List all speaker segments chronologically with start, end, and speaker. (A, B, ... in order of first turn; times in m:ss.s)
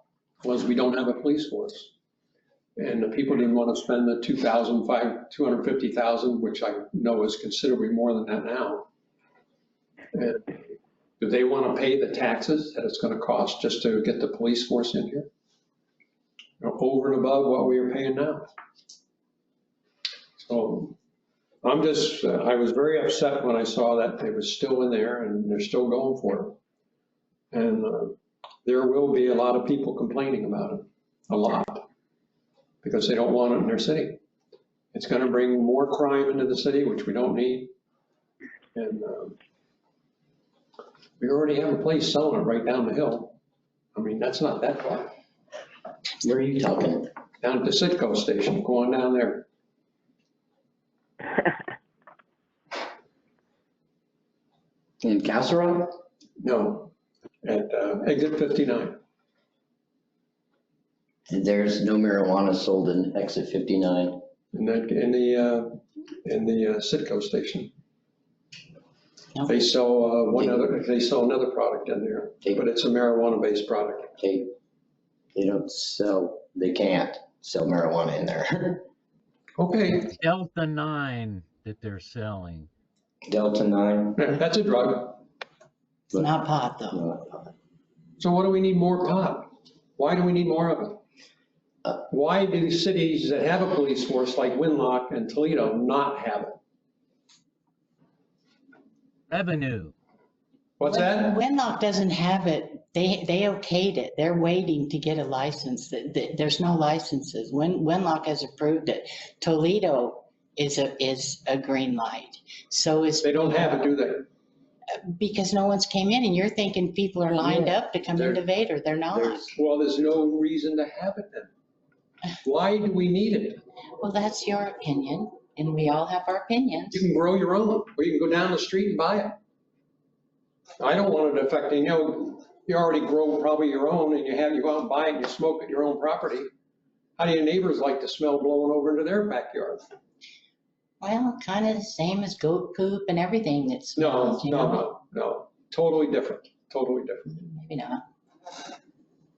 0:00.4-0:01.9 A
0:02.8-0:08.9 A
0:10.1-0:10.5 A
0:11.2-0:15.3 A
0:16.6-0:18.5 A
0:20.4-0:21.0 A
0:21.6-0:26.6 A
0:27.5-0:31.9 A
0:32.8-0:34.2 A
0:34.9-0:37.7 A
0:38.8-0:39.4 A
0:41.2-0:43.4 A
0:44.0-0:45.1 A
0:46.2-0:47.1 B
0:47.4-0:49.5 A
0:55.0-0:56.0 B
0:56.4-0:59.0 A
1:01.3-1:04.2 B
1:04.5-1:07.7 A
1:09.5-1:14.2 A
1:14.2-1:14.5 B
1:15.3-1:18.9 B
1:19.6-1:20.2 A
1:20.1-1:22.7 C
1:23.3-1:24.2 B
1:24.2-1:25.2 A
1:26.1-1:27.0 D
1:26.9-1:27.5 B
1:28.2-1:31.0 A
1:32.1-1:36.6 A
1:39.3-1:39.9 C
1:40.8-1:41.4 A
1:40.8-1:53.8 D
1:53.2-1:54.3 A
1:55.1-1:59.5 D
1:57.4-1:58.4 B
1:59.1-1:59.5 B
1:59.5-2:01.5 A
2:02.4-2:03.6 A
2:04.0-2:07.1 D
2:06.9-2:09.4 A
2:10.8-2:16.5 A
2:17.2-2:19.8 A
2:21.0-2:24.9 D
2:24.0-2:27.4 A
2:27.4-2:28.0 D